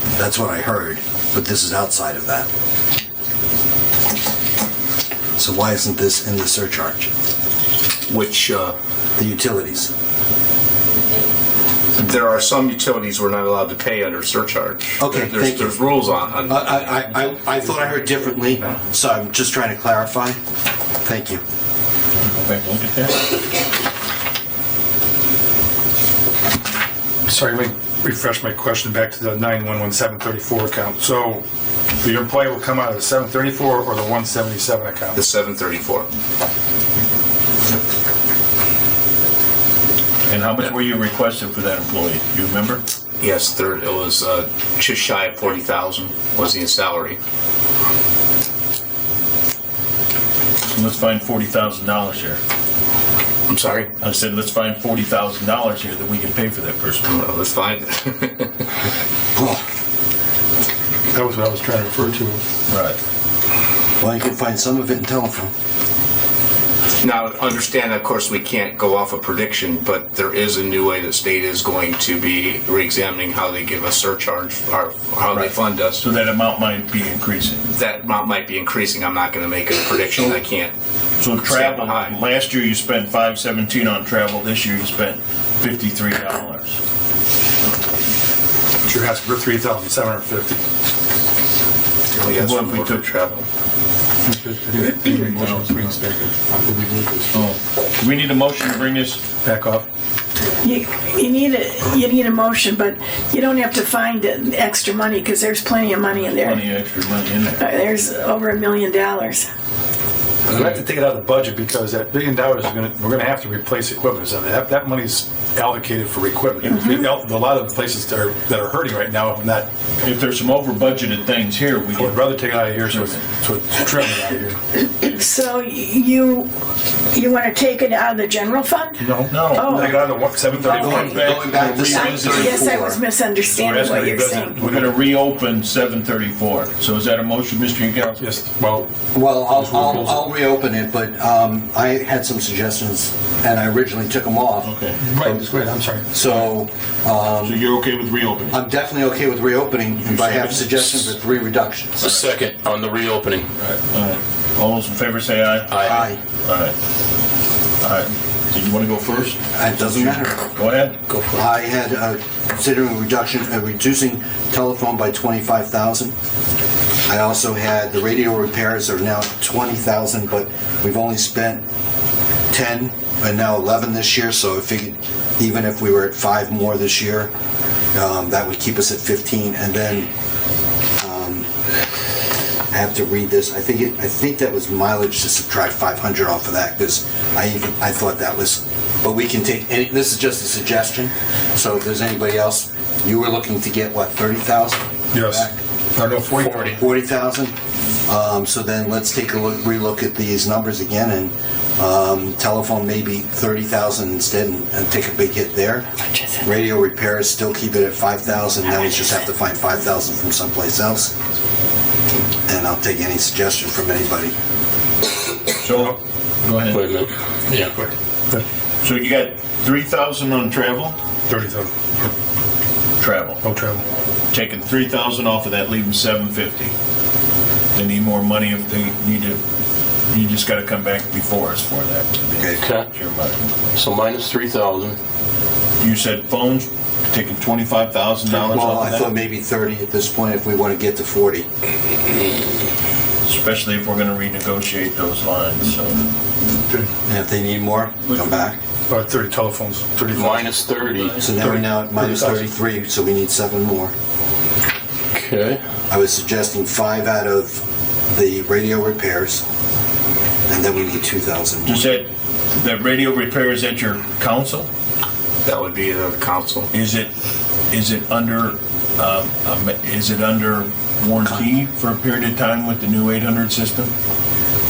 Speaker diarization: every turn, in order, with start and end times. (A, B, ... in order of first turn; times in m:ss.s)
0:00.2-0:02.5 A
0:05.4-0:07.1 A
0:08.1-0:08.8 B
0:09.2-0:09.9 A
0:12.0-0:16.9 B
0:15.0-0:15.8 A
0:16.5-0:20.4 A
0:21.0-0:21.4 A
0:22.2-0:23.2 C
0:27.3-0:31.4 D
0:32.0-0:35.2 D
0:35.2-0:36.1 B
0:40.3-0:42.8 C
0:43.2-0:47.2 B
0:50.7-0:52.4 C
0:53.5-0:53.9 B
0:54.0-0:57.2 C
0:57.1-0:58.5 B
0:59.4-0:59.6 A
1:01.1-1:02.4 D
1:02.7-1:03.0 C
1:04.0-1:05.5 A
1:07.0-1:16.0 B
1:15.3-1:17.6 C
1:17.7-1:20.7 B
1:21.2-1:26.8 C
1:21.4-1:22.2 B
1:28.8-1:30.6 D
1:32.1-1:33.4 B
1:32.3-1:33.3 C
1:34.2-1:37.4 D
1:37.3-1:39.2 C
1:39.4-1:39.9 D
1:40.6-1:46.7 E
1:46.1-1:47.7 C
1:47.6-1:49.5 E
1:50.5-1:59.7 D
1:56.6-1:57.0 C
2:00.0-2:03.2 C
2:02.0-2:04.6 D
2:05.0-2:06.5 E
2:07.1-2:10.0 E
2:09.0-2:11.8 D
2:09.3-2:12.7 C
2:10.7-2:13.0 A
2:10.7-2:14.6 E
2:13.5-2:15.0 D
2:14.6-2:18.2 C
2:18.2-2:18.9 D
2:19.1-2:25.4 A
2:19.5-2:20.3 D
2:24.6-2:25.0 C
2:25.0-2:26.1 D
2:26.1-2:27.6 A
2:27.4-2:28.6 C
2:28.5-2:32.0 A
2:30.1-2:31.2 C
2:32.0-2:33.5 F
2:32.0-2:32.3 C
2:33.6-2:36.7 C
2:35.7-2:36.1 F
2:35.8-2:36.2 A
2:37.8-2:41.0 C
2:39.5-2:40.4 A
2:41.3-2:46.1 A
2:47.1-2:51.6 A
2:52.5-2:57.3 A
2:58.0-3:00.1 A
3:01.0-3:01.5 A
3:02.7-3:15.6 A
3:15.1-3:16.8 D
3:16.4-3:17.6 A
3:18.1-3:25.9 A
3:26.4-3:31.1 A
3:32.5-3:34.4 A
3:35.6-3:36.8 C
3:36.7-3:37.7 F
3:37.8-3:38.4 D
3:38.8-3:41.0 C
3:41.3-3:41.7 D
3:43.0-3:43.4 C
3:43.4-3:43.8 D
3:44.3-3:46.7 C
3:47.8-3:49.4 C
3:50.1-3:53.4 C
3:52.6-3:52.9 F
3:53.7-3:55.0 F
3:55.8-3:59.1 C
3:58.3-4:01.5 A
4:03.2-4:06.0 C
4:07.1-4:08.6 A
4:08.9-4:10.5 D
4:10.1-4:11.2 F
4:10.8-4:11.2 C
4:11.2-4:13.9 A
4:11.3-4:12.5 D
4:15.1-4:15.6 F
4:15.9-4:17.6 A
4:18.1-4:19.4 A
4:20.5-4:21.9 A
4:21.7-4:24.7 C
4:25.4-4:26.7 B
4:26.7-4:27.1 C
4:27.7-4:33.9 C